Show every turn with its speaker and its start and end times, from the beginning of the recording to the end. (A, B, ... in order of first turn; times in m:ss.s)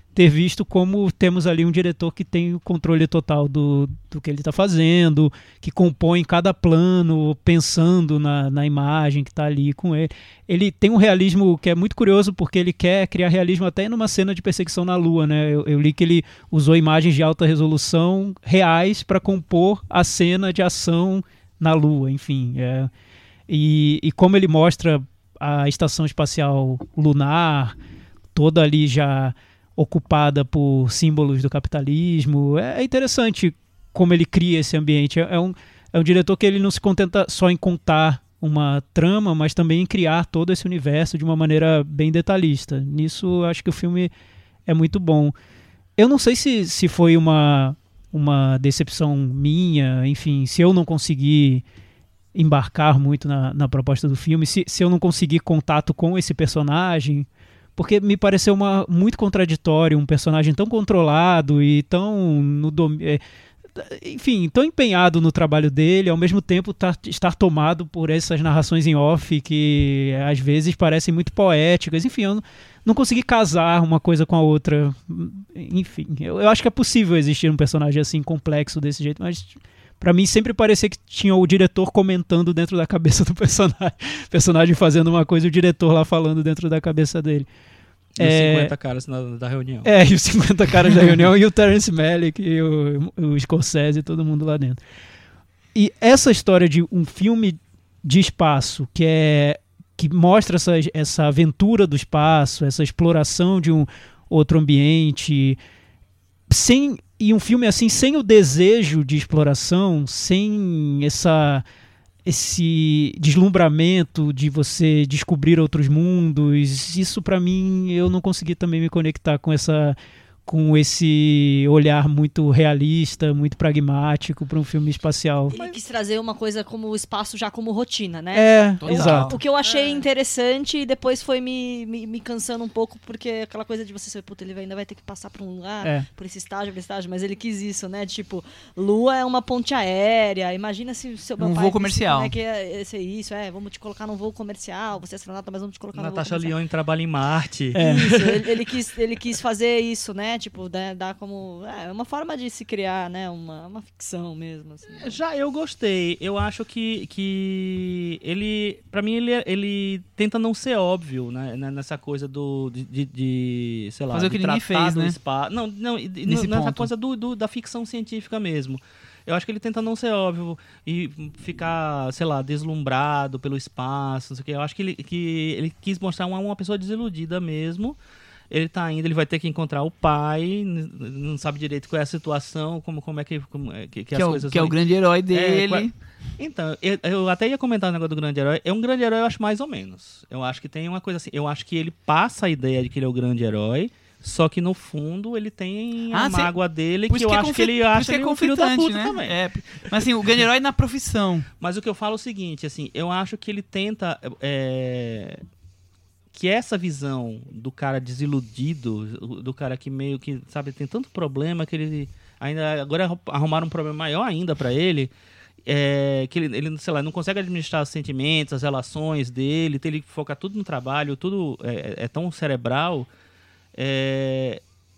0:00.2-0:22.9 A
0:23.5-0:27.7 A
0:28.3-0:44.1 A
0:44.7-0:45.3 A
0:46.0-0:51.6 A
0:52.4-1:03.2 A
1:03.7-1:27.5 A
1:28.2-1:30.0 B
1:28.2-1:28.7 A
1:29.8-1:34.8 A
1:35.7-1:45.6 A
1:46.5-1:51.6 A
1:52.3-2:05.5 A
2:05.5-2:26.6 C
2:05.5-2:05.8 B
2:08.3-2:09.4 A
2:08.8-2:09.4 D
2:09.6-2:10.1 B
2:21.4-2:22.3 D
2:25.9-2:28.6 B
2:27.8-2:28.1 A
2:27.8-2:35.2 C
2:34.9-2:58.0 B
2:44.1-2:45.2 D
2:46.3-2:46.9 D
2:58.5-3:04.8 B
3:04.1-3:05.9 D
3:05.3-3:19.4 B
3:16.1-3:16.5 D
3:17.1-3:21.5 D
3:21.6-3:25.4 B
3:26.3-3:35.1 B
3:35.7-3:43.1 B
3:43.8-3:44.6 B